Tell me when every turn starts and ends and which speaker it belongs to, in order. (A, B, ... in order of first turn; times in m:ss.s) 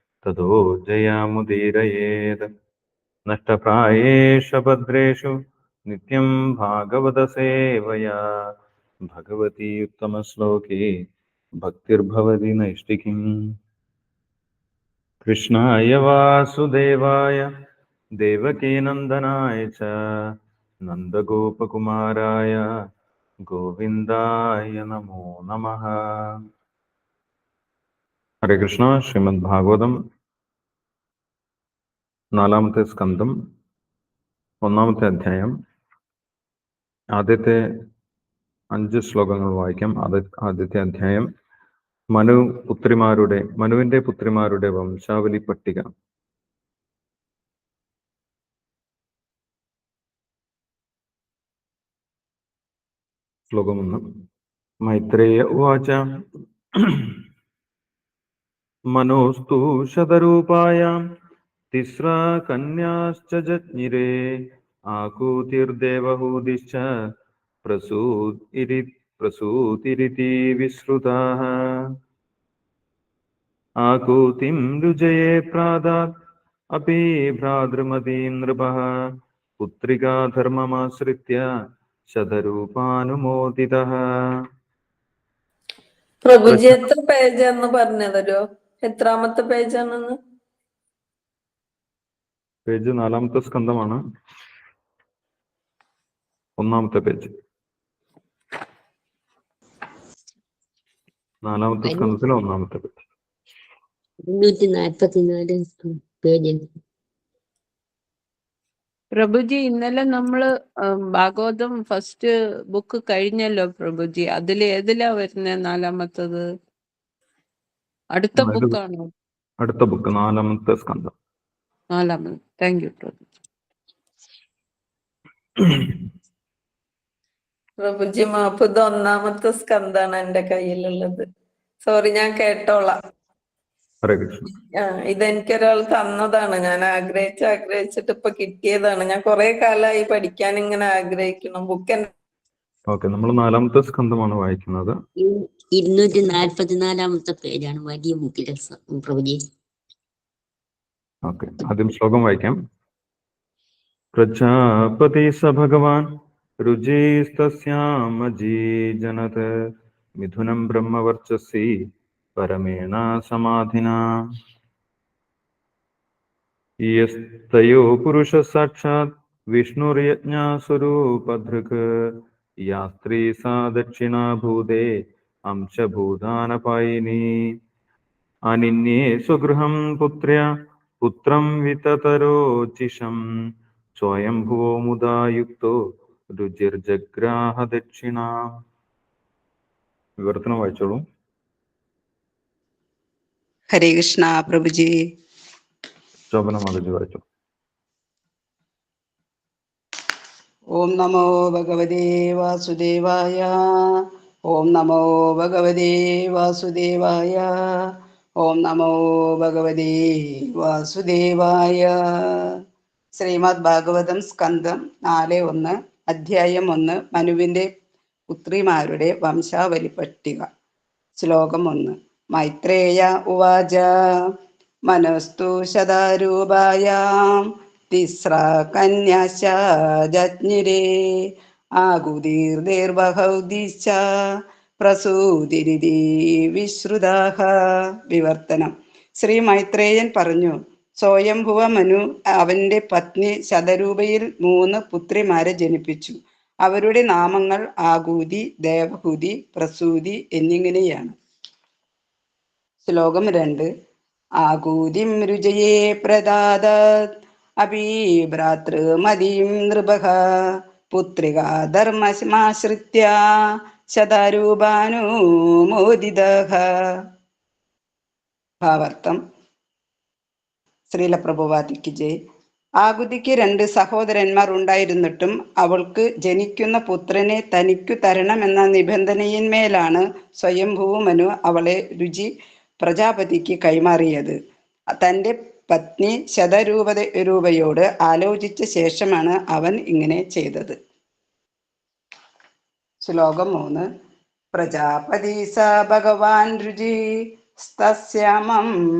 0:00.2-0:02.5 A
0:03.3-0:05.3 A
0:05.9-0:08.2 A
0:09.1-0:10.9 A
0:11.6-0:13.2 A
0:15.2-0:17.5 A
0:18.2-0:19.9 A
0:20.9-0:22.6 A
0:23.4-0:25.9 A
0:28.4-0:30.0 A
0:32.3-0:33.3 A
0:34.6-0:35.5 A
0:37.2-0:37.6 A
0:38.7-0:41.3 A
0:42.1-0:45.9 A
0:53.5-0:54.0 A
0:54.8-0:56.0 A
0:56.8-0:57.2 A
0:58.9-1:00.9 A
1:01.7-1:04.4 A
1:04.9-1:06.8 A
1:07.6-1:11.6 A
1:13.8-1:16.1 A
1:16.7-1:18.9 A
1:19.6-1:21.4 A
1:22.1-1:23.9 A
1:26.2-1:30.2 B
1:26.5-1:26.8 A
1:32.7-1:34.0 A
1:36.6-1:37.3 A
1:41.4-1:42.9 A
1:41.8-1:42.1 C
1:44.2-1:46.6 C
1:49.1-1:56.4 D
1:58.1-1:59.1 D
1:58.4-1:58.8 A
1:59.6-2:01.1 A
2:01.9-2:03.2 D
2:05.6-2:06.0 A
2:07.8-2:11.2 B
2:11.8-2:13.0 B
2:14.0-2:14.5 A
2:14.8-2:22.1 B
2:22.9-2:24.9 A
2:25.2-2:29.4 C
2:31.2-2:32.6 A
2:34.1-2:36.1 A
2:36.6-2:39.5 A
2:40.2-2:41.7 A
2:42.4-2:44.0 A
2:46.8-2:51.8 A
2:52.6-2:54.9 A
2:55.5-2:57.2 A
2:58.5-3:00.4 A
3:01.0-3:03.2 A
3:04.0-3:05.7 A
3:06.3-3:08.5 A
3:10.2-3:11.0 A
3:13.7-3:14.9 E
3:16.3-3:17.2 A
3:20.7-3:32.6 E
3:33.2-3:37.7 E
3:38.3-3:40.5 E
3:41.2-3:43.9 E
3:44.9-3:54.0 E
3:54.8-3:57.5 E
3:58.1-4:11.2 E
4:12.8-4:13.7 E
4:14.4-4:17.1 E
4:17.6-4:20.2 E
4:20.9-4:27.0 E
4:28.6-4:29.2 E
4:30.9-4:32.2 E
4:32.8-4:44.4 E
4:44.9-4:50.8 E
4:53.0-4:53.9 E
4:54.5-4:58.7 E